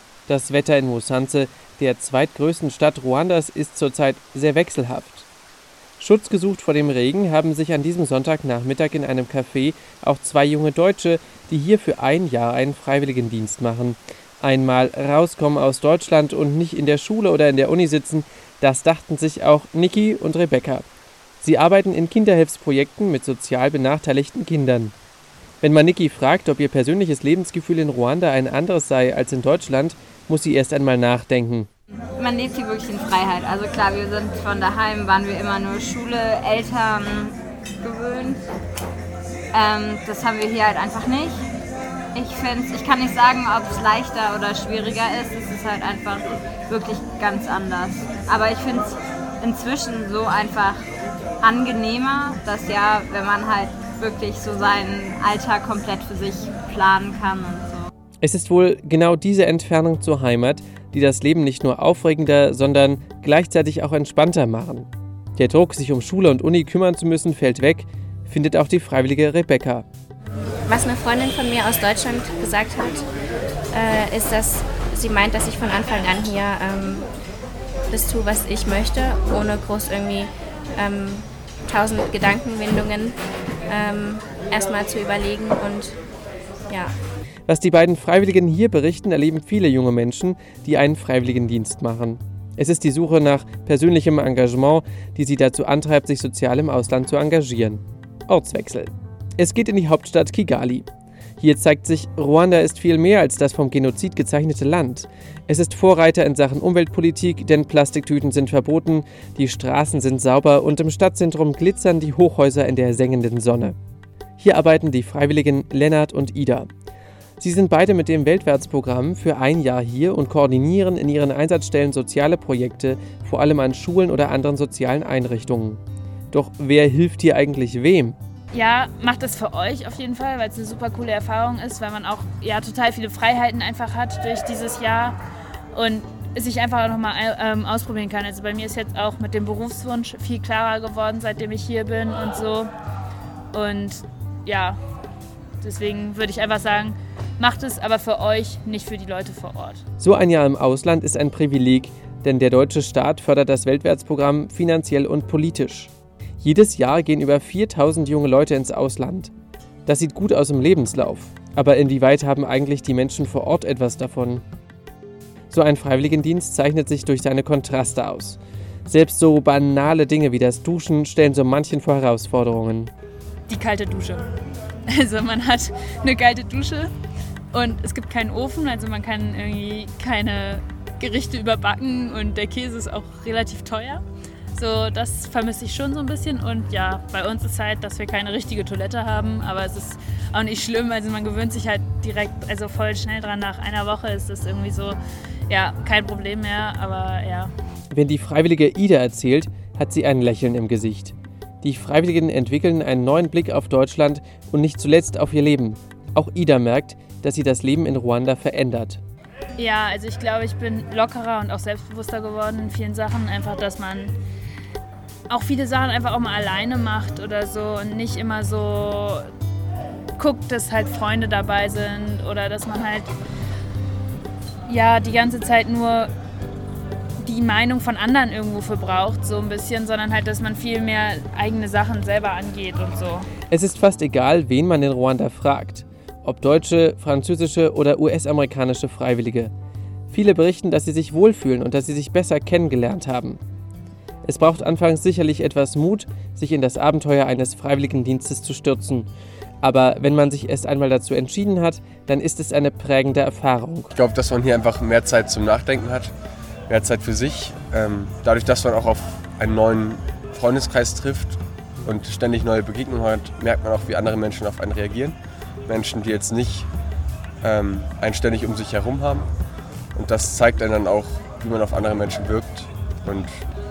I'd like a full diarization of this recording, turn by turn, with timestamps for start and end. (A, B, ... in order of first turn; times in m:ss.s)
0:00.3-0:05.2 A
0:06.0-0:20.8 A
0:21.4-0:24.9 A
0:25.6-0:31.7 A
0:32.2-0:36.9 B
0:37.8-0:38.4 B
0:39.6-0:41.3 B
0:42.2-0:48.9 B
0:49.4-0:50.7 B
0:51.4-0:57.7 B
0:58.2-1:09.8 A
1:10.7-1:13.0 C
1:13.7-1:17.1 C
1:17.9-1:23.2 C
1:23.7-1:26.0 C
1:27.5-1:40.9 A
1:41.4-1:53.8 A
1:54.4-1:56.7 A
1:57.4-2:05.8 A
2:06.3-2:08.2 A
2:08.5-2:15.2 D
2:15.7-2:22.7 D
2:23.5-2:24.8 D
2:25.6-2:29.8 D
2:30.0-2:39.3 A
2:39.8-2:44.4 A
2:45.5-2:52.9 A
2:53.5-2:54.3 D
2:54.9-2:56.9 D
2:57.5-3:04.0 D
3:04.5-3:15.0 D
3:15.5-3:17.5 D
3:17.9-3:29.0 A
3:29.6-3:34.1 D
3:35.3-3:39.3 D
3:40.2-3:43.1 D
3:44.7-3:46.1 D
3:47.2-3:53.3 D
3:53.5-3:59.5 A
4:00.1-4:03.4 A
4:04.2-4:09.1 A
4:09.6-4:13.9 A
4:13.9-4:16.1 E
4:16.7-4:26.7 E
4:27.4-4:29.3 E
4:29.9-4:33.3 E